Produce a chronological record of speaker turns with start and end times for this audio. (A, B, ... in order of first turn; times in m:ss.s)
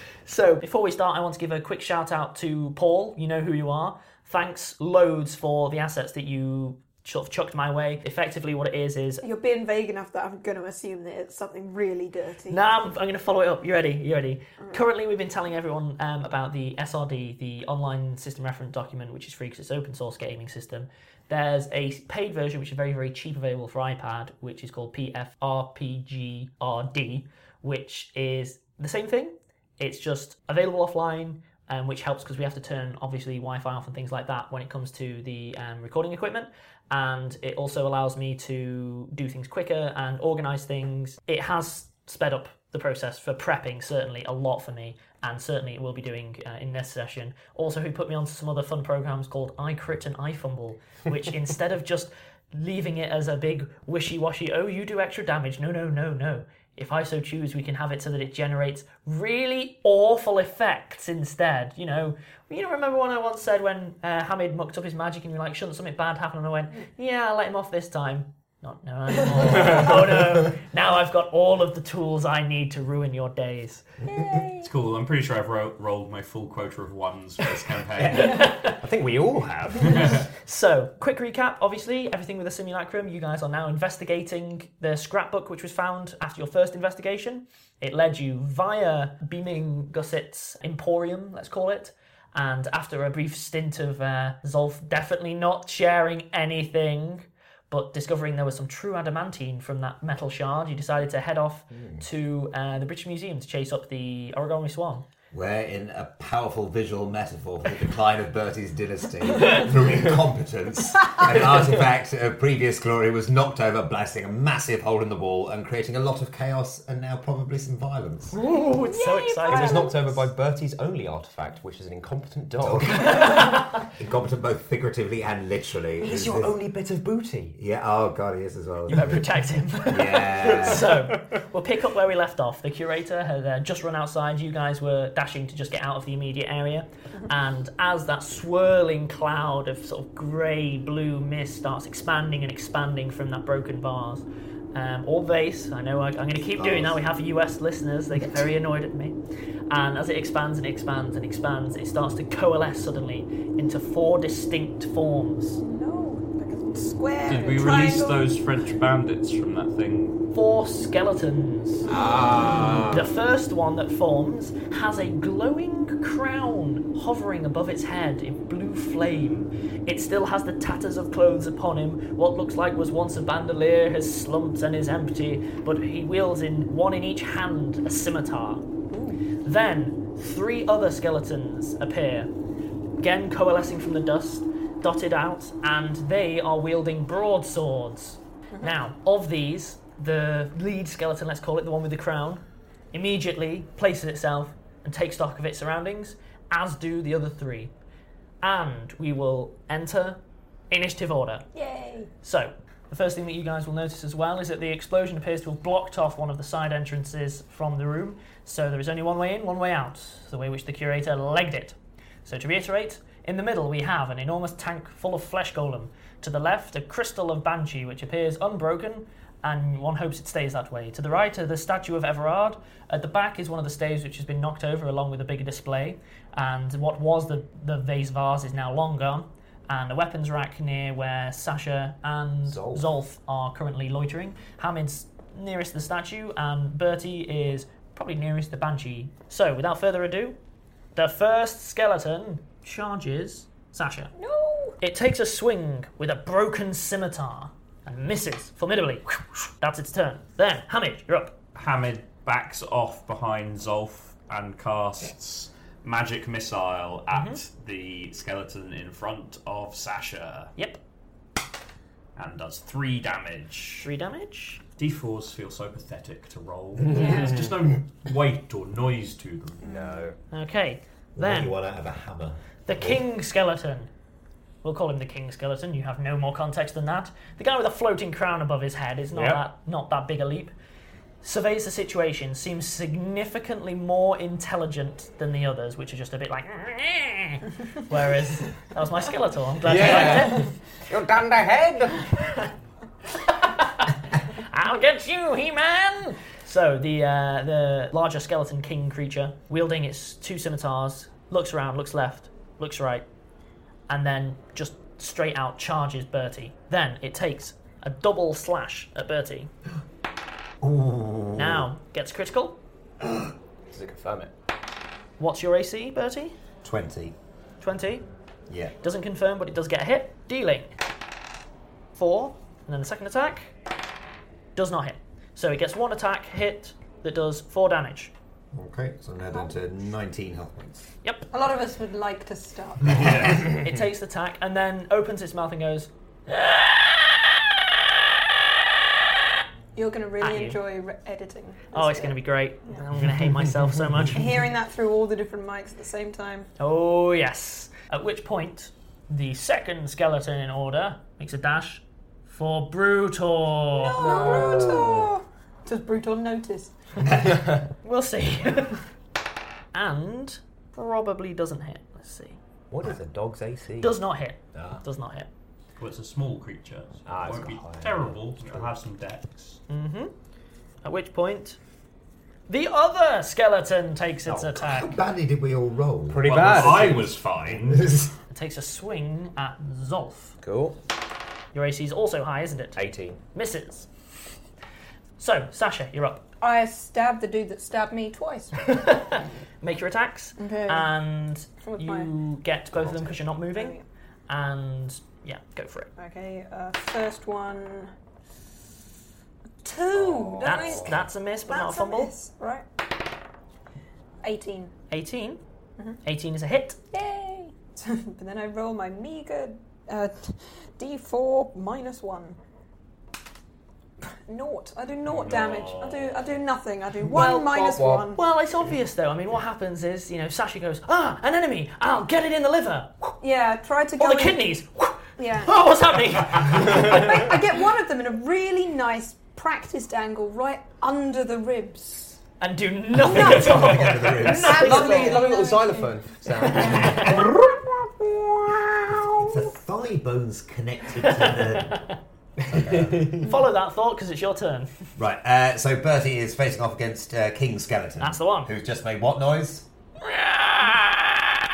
0:00.2-0:09.2 A
0:09.2-0:12.6 B
0:12.5-1:13.8 A
1:09.7-1:10.2 C
1:14.0-1:14.7 B
1:14.6-1:18.5 D
1:17.9-1:20.3 C
1:18.1-1:18.8 A
1:19.8-1:20.2 D
1:20.4-1:45.0 A
1:41.7-1:42.0 C
1:45.3-1:58.4 E
1:49.4-1:50.2 C
1:51.1-1:51.9 C
1:58.3-2:00.1 A
1:58.8-2:00.2 B
1:59.4-2:03.4 C
2:02.6-2:03.4 E
2:03.0-2:03.6 A
2:04.0-2:06.5 E
2:06.0-2:07.6 C
2:07.6-2:09.3 E
2:08.9-2:29.2 A
2:09.9-2:10.9 E
2:10.4-2:10.7 C
2:26.6-2:27.0 E
2:29.7-2:35.6 A
2:35.6-2:38.3 B
2:37.2-2:40.2 D
2:40.3-2:41.9 A
2:41.9-2:43.1 C
2:42.8-2:58.6 A
2:58.9-2:59.2 B
2:59.4-3:02.3 A
3:03.0-3:12.4 A
3:12.9-3:17.7 A
3:18.4-3:21.4 A
3:21.5-3:22.1 B
3:22.2-4:00.4 A
3:52.4-3:52.9 C
4:01.0-4:04.1 A
4:04.2-4:04.8 B
4:04.8-4:11.3 A
4:11.5-4:20.5 D
4:17.1-4:17.4 A
4:22.2-4:23.9 D
4:23.8-4:24.6 A
4:24.8-4:29.7 D
4:26.8-4:27.6 C
4:26.9-4:27.3 B
4:29.6-4:30.2 C
4:29.6-4:30.1 B
4:30.3-4:31.5 A
4:31.2-4:33.0 E
4:32.6-4:33.9 A
4:34.6-4:40.5 A
4:39.1-4:39.4 C
4:41.2-4:50.5 A
4:49.6-4:52.4 C
4:53.4-5:03.0 A
5:03.9-5:09.5 A
5:10.6-5:11.7 E
5:11.3-5:12.6 A
5:13.7-5:14.3 C
5:15.2-5:16.3 A
5:16.6-5:17.1 E
5:17.6-5:18.0 A
5:18.5-5:18.7 E
5:18.8-5:20.7 A
5:21.9-5:23.5 A
5:24.6-5:28.1 A
5:28.5-5:30.9 E
5:31.3-5:33.1 B
5:32.9-5:33.5 D
5:32.9-5:33.3 E
5:33.5-5:36.7 A
5:39.8-5:42.8 B
5:40.2-5:40.6 A
5:41.7-5:44.2 A
5:44.1-5:46.5 B
5:46.6-5:54.3 A
5:53.8-5:57.0 B
5:54.0-5:55.1 C
5:54.4-5:54.8 E
5:57.0-5:57.3 E
5:57.3-5:57.6 C
5:57.8-5:58.8 A
5:59.7-6:02.4 A
6:02.7-6:04.0 C
6:03.8-6:05.3 A
6:04.5-6:04.8 C
6:05.8-6:09.6 D
6:07.0-6:08.7 C
6:09.7-6:10.1 A
6:10.8-6:11.6 A
6:12.5-6:14.9 A
6:14.2-6:14.5 C
6:14.5-6:16.8 E
6:16.1-6:17.2 C
6:16.2-6:17.9 D
6:17.5-6:18.1 E
6:18.3-6:20.4 A
6:20.4-6:20.8 C
6:21.5-6:22.8 A
6:22.8-6:23.2 C
6:23.3-6:23.9 A
6:25.2-6:26.2 A
6:26.4-6:28.6 B
6:28.6-6:33.8 A
6:30.4-6:30.9 B
6:31.6-6:32.1 B
6:32.7-6:33.2 C
6:33.5-6:33.8 B
6:34.3-6:35.9 A
6:36.0-6:37.9 B
6:39.6-6:42.6 B
6:40.0-6:40.8 E
6:40.4-6:42.1 A
6:44.2-6:44.7 B
6:44.9-6:45.4 A
6:46.0-6:46.8 A
6:46.9-6:52.4 B
6:54.0-6:58.2 B
6:55.0-6:56.4 D
6:57.0-6:58.1 C
6:57.1-6:57.6 A
6:58.1-7:02.9 A
7:03.2-7:04.4 B
7:04.0-7:07.3 A
7:05.2-7:05.6 B
7:06.5-7:12.2 B
7:12.4-7:15.3 A
7:13.0-7:14.9 E
7:13.2-7:13.7 D
7:14.2-7:19.5 B
7:14.3-7:17.3 C
7:16.6-7:17.3 E
7:16.6-7:17.1 A
7:18.9-7:21.8 E
7:21.0-7:22.0 A
7:22.4-7:23.3 C
7:22.5-7:23.1 E
7:23.2-7:24.7 A
7:25.0-7:29.7 E
7:28.0-7:28.5 A
7:30.1-7:31.0 A